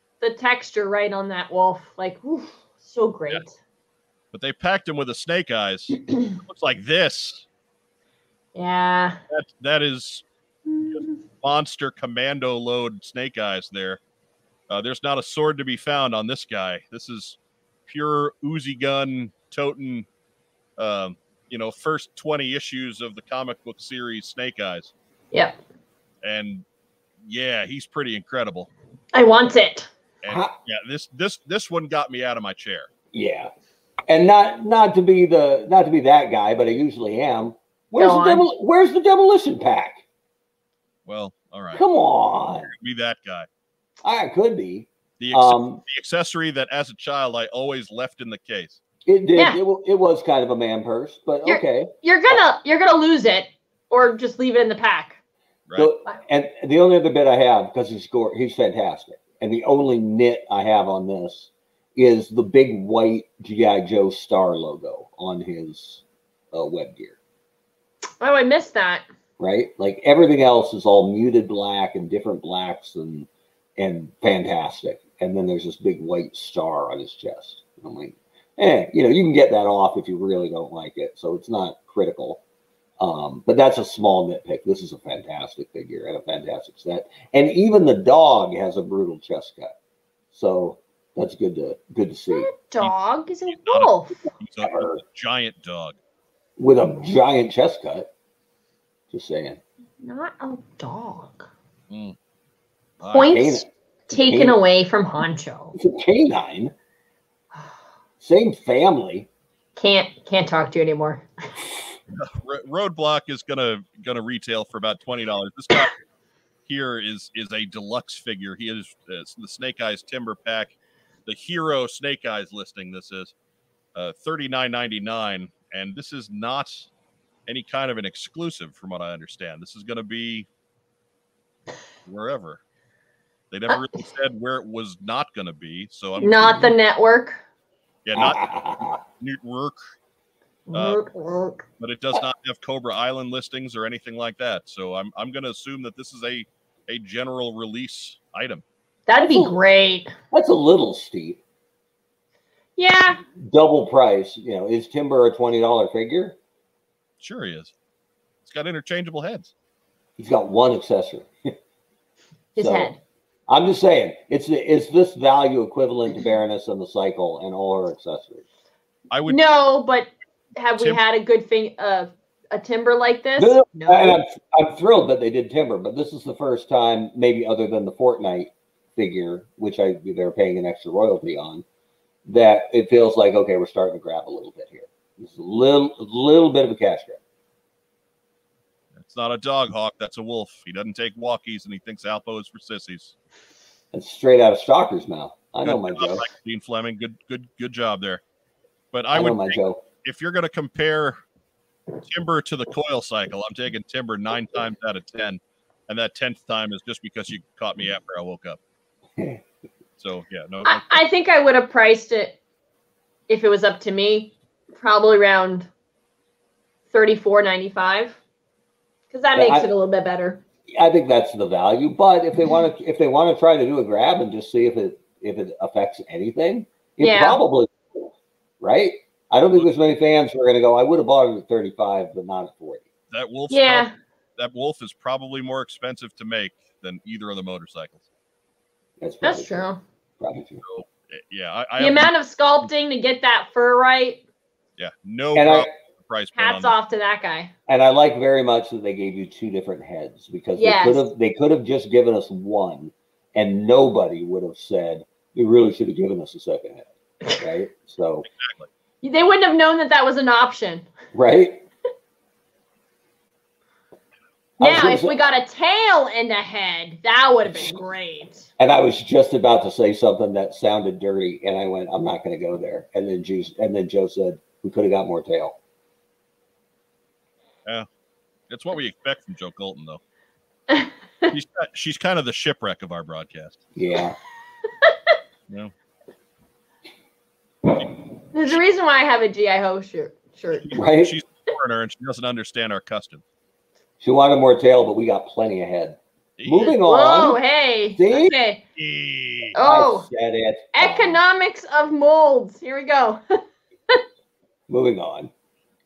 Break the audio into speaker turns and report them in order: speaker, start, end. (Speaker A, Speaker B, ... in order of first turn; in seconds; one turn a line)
Speaker A: 0.2-3.5
Speaker B: 4.3-7.5
Speaker A: 6.1-6.3
Speaker A: 8.5-9.2
Speaker B: 9.3-10.2
Speaker A: 10.7-11.2
Speaker B: 10.8-14.0
Speaker B: 14.7-20.1
Speaker B: 20.8-24.9
Speaker A: 25.3-25.6
Speaker B: 26.2-26.6
Speaker B: 27.2-28.7
Speaker A: 29.1-29.9
Speaker B: 30.2-32.9
Speaker C: 30.3-30.5
Speaker C: 33.1-33.5
Speaker C: 34.1-40.0
Speaker A: 38.0-38.5
Speaker B: 41.0-41.8
Speaker C: 41.7-42.7
Speaker B: 42.6-43.5
Speaker C: 44.0-45.8
Speaker B: 45.2-48.8
Speaker C: 49.0-51.9
Speaker A: 51.4-55.2
Speaker C: 55.8-67.2
Speaker A: 68.2-69.0
Speaker C: 69.4-82.4
Speaker C: 83.0-89.7
Speaker C: 90.3-92.5
Speaker A: 92.3-94.2
Speaker B: 93.5-96.0
Speaker C: 94.6-95.0
Speaker C: 96.6-98.1
Speaker C: 99.1-99.6
Speaker A: 100.0-101.5
Speaker B: 101.9-102.2
Speaker B: 103.0-103.4
Speaker A: 103.1-105.7
Speaker C: 103.2-104.6
Speaker C: 105.7-106.7
Speaker C: 108.2-109.3
Speaker A: 109.8-111.3
Speaker B: 112.1-115.9
Speaker B: 116.7-120.7
Speaker B: 121.2-123.3
Speaker B: 123.9-126.9
Speaker B: 127.5-130.5
Speaker B: 132.1-132.6
Speaker B: 133.5-136.7
Speaker A: 136.2-137.4
Speaker B: 138.0-138.4
Speaker C: 138.1-139.0
Speaker B: 139.0-139.8
Speaker A: 140.7-141.6
Speaker B: 140.7-141.0
Speaker B: 141.8-148.6
Speaker A: 149.1-150.1
Speaker C: 149.2-149.6
Speaker C: 150.3-151.4
Speaker A: 152.8-153.2
Speaker C: 153.2-156.4
Speaker B: 157.2-157.7
Speaker B: 158.4-159.5
Speaker C: 160.2-161.5
Speaker A: 162.5-163.0
Speaker C: 162.6-162.9
Speaker C: 163.5-168.4
Speaker B: 169.1-169.4
Speaker A: 169.3-174.2
Speaker C: 173.4-181.6
Speaker C: 182.2-187.2
Speaker B: 188.9-193.2
Speaker C: 193.9-196.3
Speaker B: 195.6-198.2
Speaker B: 198.9-201.2
Speaker C: 199.1-199.8
Speaker B: 202.0-208.6
Speaker B: 210.0-211.0
Speaker A: 210.6-212.4
Speaker A: 213.3-215.7
Speaker A: 216.9-218.2
Speaker A: 219.1-220.4
Speaker C: 219.3-219.7
Speaker C: 220.7-228.1
Speaker A: 227.0-227.4
Speaker C: 228.6-232.8
Speaker B: 233.1-238.0
Speaker A: 233.5-233.9
Speaker C: 239.0-239.7
Speaker A: 239.2-239.8
Speaker C: 240.2-240.6
Speaker B: 240.6-242.1
Speaker A: 241.8-244.2
Speaker B: 244.8-246.7
Speaker C: 245.3-245.7
Speaker A: 246.3-247.5
Speaker C: 247.7-258.2
Speaker A: 250.6-251.1
Speaker B: 258.2-258.7
Speaker A: 259.0-260.9
Speaker C: 261.1-261.6
Speaker C: 264.6-265.2
Speaker A: 264.6-268.5
Speaker C: 268.6-275.6
Speaker B: 278.5-280.0
Speaker A: 280.7-281.3
Speaker B: 281.3-283.6
Speaker C: 283.8-284.2
Speaker A: 288.3-290.8
Speaker B: 290.7-293.2
Speaker C: 290.7-291.1
Speaker C: 294.0-297.4
Speaker B: 296.4-296.7
Speaker A: 296.5-298.6
Speaker C: 297.9-298.3
Speaker B: 298.8-299.6
Speaker A: 299.5-300.1
Speaker C: 299.6-301.2
Speaker A: 300.7-304.0
Speaker C: 304.7-305.3